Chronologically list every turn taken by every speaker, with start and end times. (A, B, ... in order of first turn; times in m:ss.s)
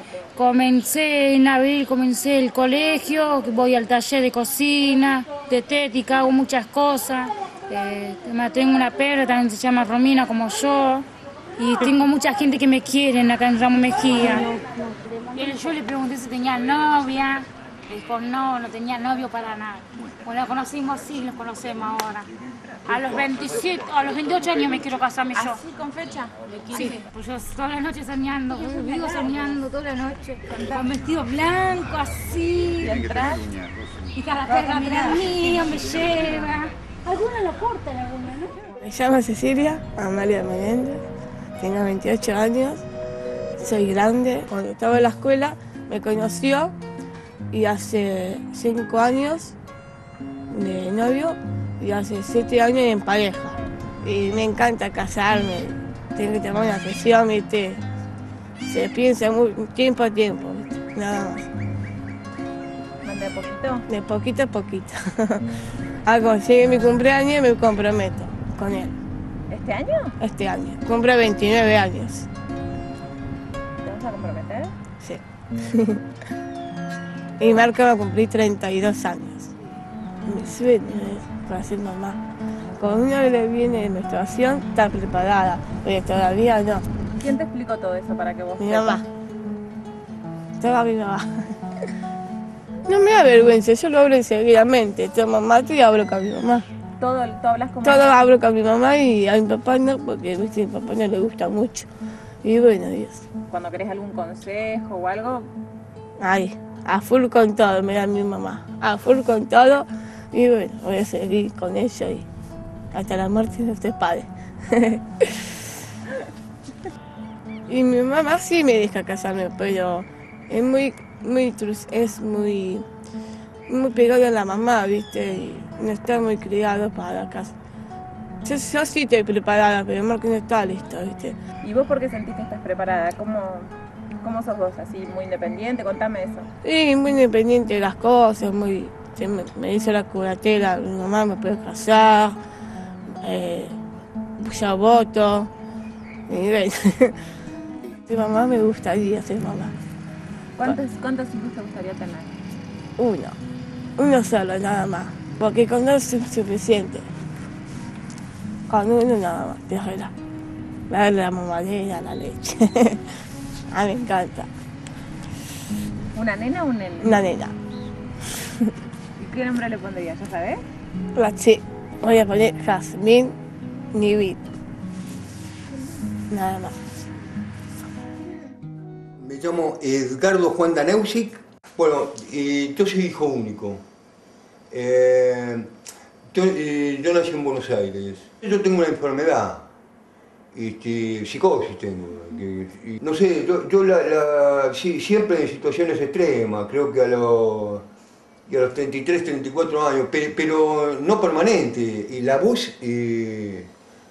0:00.3-0:11.1 A
0:11.6-0:22.3 A
0:22.9-0:25.6 A
0:25.3-0:27.0 B
0:26.7-0:33.0 A
0:32.8-0:33.5 B
0:34.1-0:38.4 A
0:34.5-0:35.4 B
0:38.7-0:41.0 C
0:41.6-0:42.8 C
0:43.6-0:46.8 C
0:47.5-0:49.6 C
0:50.5-0:57.8 C
0:58.6-1:01.5 C
1:03.0-1:03.8 B
1:03.9-1:05.5 C
1:06.0-1:09.0 C
1:09.5-1:10.1 B
1:10.2-1:12.3 C
1:13.8-1:14.7 B
1:15.0-1:16.0 C
1:17.4-1:19.5 C
1:20.2-1:22.2 C
1:22.8-1:26.8 C
1:27.2-1:29.0 B
1:28.6-1:29.0 C
1:30.6-1:31.2 C
1:32.9-1:36.6 C
1:37.0-1:38.2 B
1:37.8-1:41.9 C
1:42.4-1:43.2 C
1:43.5-1:45.5 B
1:46.2-1:52.2 C
1:52.9-1:55.5 C
1:57.7-2:02.8 C
2:03.7-2:07.5 C
2:08.4-2:11.4 C
2:11.6-2:16.5 B
2:16.6-2:22.4 C
2:23.2-2:23.8 C
2:24.4-2:25.5 C
2:26.3-2:27.2 C
2:28.0-2:29.7 C
2:30.6-2:32.3 B
2:33.0-2:33.4 C
2:34.0-2:37.1 C
2:38.7-2:40.1 C
2:40.9-2:43.0 C
2:43.7-2:44.5 C
2:46.1-2:47.2 B
2:47.0-2:47.5 C
2:49.2-2:50.6 B
2:51.1-2:53.4 C
2:53.9-2:54.4 C
2:56.3-2:56.8 C
2:59.2-3:03.8 D
3:04.7-3:05.7 D
3:06.3-3:09.6 D
3:10.5-3:17.8 D
3:18.5-3:23.7 D